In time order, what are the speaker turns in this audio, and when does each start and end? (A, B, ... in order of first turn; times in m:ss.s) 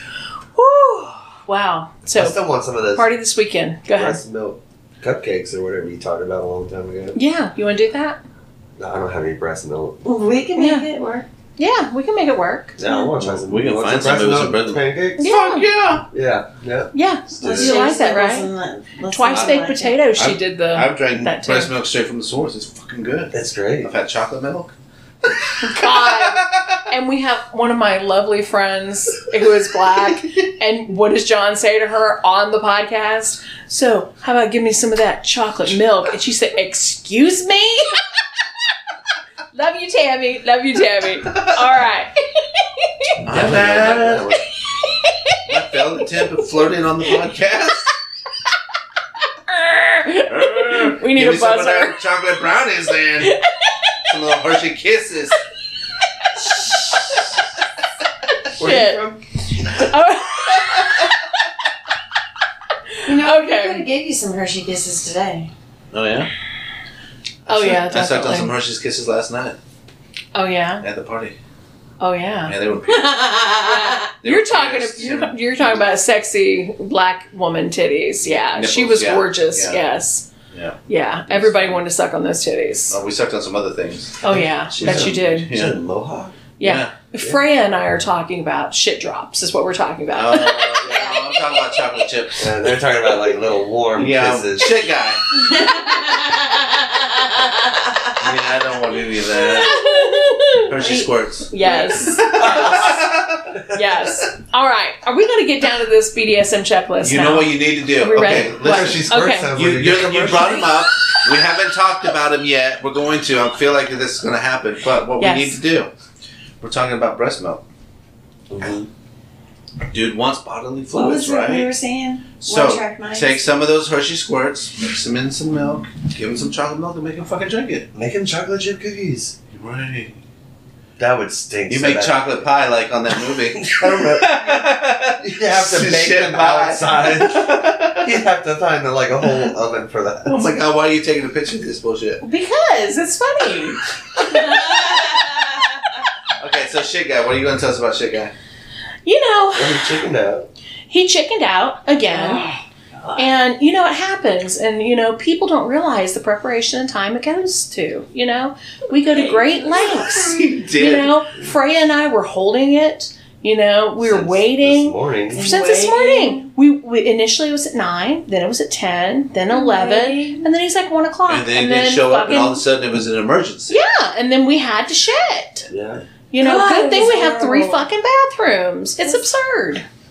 0:00.6-0:02.4 A
0:02.1-0:03.1 B
0:02.9-0:04.2 A
0:04.0-0:07.2 B
0:07.2-0:08.2 A
0:08.8-0:10.0 B
0:10.0-0:11.3 C
0:10.6-0:10.9 A
0:11.6-0:13.1 A
0:12.8-0:15.2 B
0:13.2-0:16.1 D
0:15.2-0:15.7 A
0:16.1-0:17.8 B
0:16.9-0:18.5 A
0:17.4-0:20.0 C
0:19.1-0:21.7 A
0:20.2-0:24.7 D
0:23.3-0:23.9 B
0:25.2-0:26.8 D
0:25.6-0:38.0 A
0:39.5-0:43.1 A
0:43.2-0:44.3 B
0:43.2-0:44.4 D
0:44.8-0:45.4 A
0:45.5-0:47.9 D
0:49.5-0:52.0 A
0:50.3-0:53.4 D
0:53.2-0:54.0 A
0:54.1-0:55.4 D
0:56.4-0:57.2 A
0:58.6-0:59.2 B
0:58.6-1:01.1 A
1:02.9-1:03.8 A
1:03.0-1:05.5 C
1:05.9-1:06.3 D
1:07.5-1:09.6 D
1:07.5-1:08.5 A
1:10.3-1:10.9 A
1:10.8-1:11.4 D
1:12.0-1:12.6 A
1:12.4-1:13.2 D
1:12.9-1:14.1 C
1:13.6-1:20.3 A
1:14.2-1:15.9 D
1:18.3-1:19.8 D
1:20.5-1:21.8 D
1:20.9-1:23.0 A
1:22.9-1:25.8 D
1:24.2-1:25.5 A
1:24.8-1:26.4 B
1:26.6-1:30.9 A
1:26.6-1:26.9 D
1:30.1-1:32.5 D
1:30.8-1:32.0 C
1:32.4-1:34.8 B
1:34.0-1:35.3 D
1:35.3-1:38.1 C
1:38.2-1:39.8 D
1:39.3-1:40.3 C
1:39.4-1:42.9 A
1:40.7-1:43.6 D
1:41.6-1:42.1 C
1:42.4-1:43.0 B
1:43.7-1:49.5 A
1:47.0-1:55.9 D
1:48.6-1:50.8 B
1:55.2-1:55.6 A
1:56.6-1:57.6 D
1:58.5-1:58.9 B
1:59.9-2:01.7 D
2:00.9-2:03.5 C
2:02.4-2:07.9 D
2:07.9-2:09.4 B
2:09.5-2:10.2 D
2:11.0-2:12.2 B
2:11.7-2:18.1 D
2:13.6-2:20.4 B
2:19.3-2:19.6 D
2:20.2-2:22.2 D
2:22.2-2:23.8 A
2:24.3-2:25.5 C
2:26.4-2:28.3 D
2:29.1-2:30.0 A
2:29.5-2:30.5 B
2:30.9-2:32.4 A
2:32.1-2:32.6 C
2:33.2-2:52.6 A
2:39.1-2:40.3 C
2:40.0-2:41.2 D
2:44.0-2:45.5 B
2:45.3-2:46.5 C
2:49.5-2:50.5 C
2:51.3-2:53.8 D
2:53.7-2:55.7 A
2:55.7-2:56.0 B
2:56.3-2:59.8 A
2:56.4-2:57.8 C